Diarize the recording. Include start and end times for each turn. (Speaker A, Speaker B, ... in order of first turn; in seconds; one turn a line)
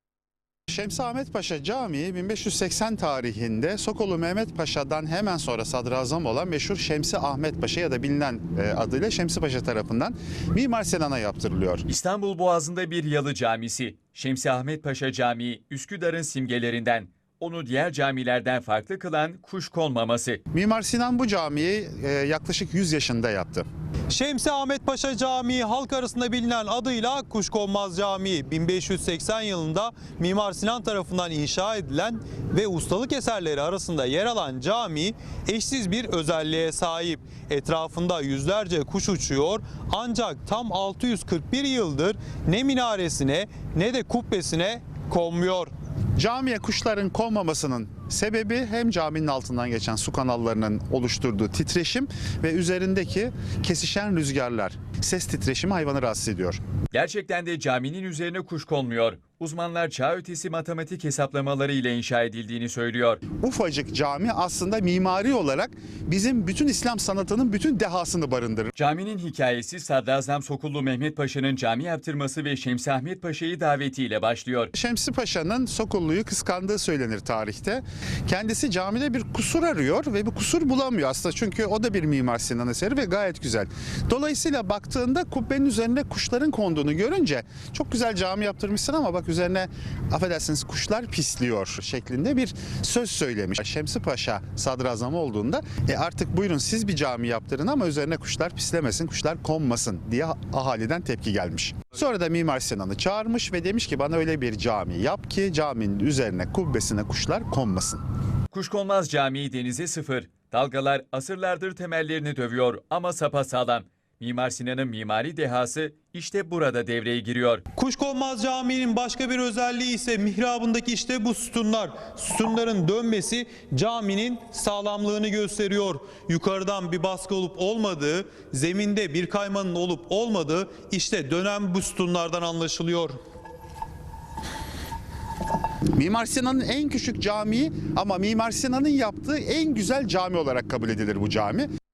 Speaker A: 0.7-11.8
Speaker B: 11.9-20.4
Speaker A: 20.5-23.6
Speaker C: 24.1-45.7
Speaker A: 46.2-56.6
Speaker B: 56.9-63.2
Speaker A: 63.4-68.7
Speaker B: 68.8-74.7
Speaker A: 74.7-108.0
Speaker B: 108.5-117.6
Speaker C: 117.7-133.2
Speaker A: 135.9-141.7